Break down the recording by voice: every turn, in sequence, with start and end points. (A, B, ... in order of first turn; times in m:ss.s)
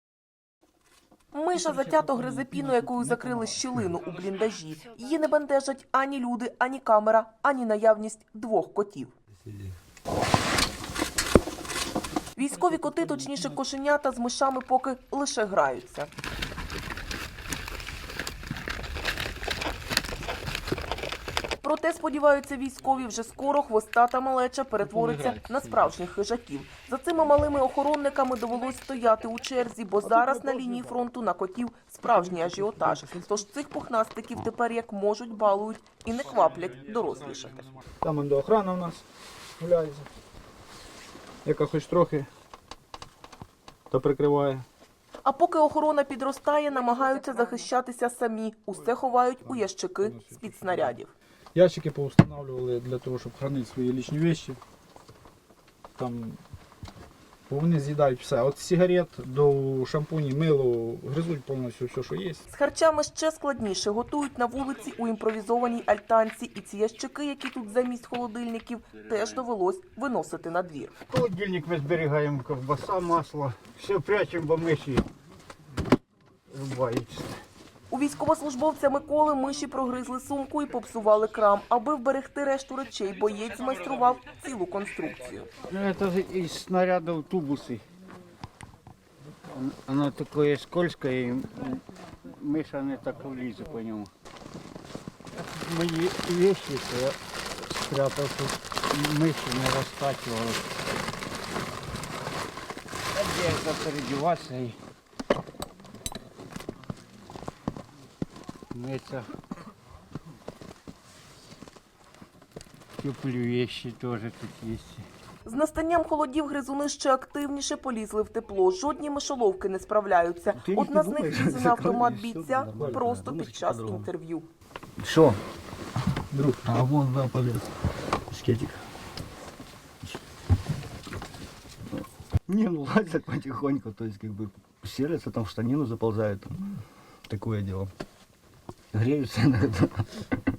0:01.3-0:09.1 A
0:01.7-0:03.6 B
0:12.4-0:16.1 A
0:21.6-0:37.7 A
0:25.0-0:25.5 C
0:30.0-0:31.1 B
0:32.2-0:33.0 B
0:38.0-0:39.0 B
0:39.6-0:40.1 B
0:41.4-0:42.3 B
0:43.9-0:44.7 B
0:45.2-0:51.1 A
0:49.4-0:51.0 B
0:51.6-0:54.6 B
0:56.0-0:56.4 B
0:57.5-1:02.4 B
1:02.5-1:10.9 A
1:11.1-1:15.1 C
1:16.5-1:17.4 C
1:17.9-1:25.5 A
1:25.7-1:27.8 C
1:29.5-1:34.1 C
1:35.3-1:40.8 C
1:43.1-1:44.8 C
1:48.7-1:49.3 C
1:53.0-1:55.1 C
1:55.4-2:04.5 A
2:00.6-2:04.1 D
2:02.8-2:03.1 B
2:05.0-2:05.4 D
2:06.3-2:06.6 B
2:06.6-2:07.6 D
2:08.3-2:08.8 D
2:12.5-2:17.9 D
2:18.9-2:20.3 D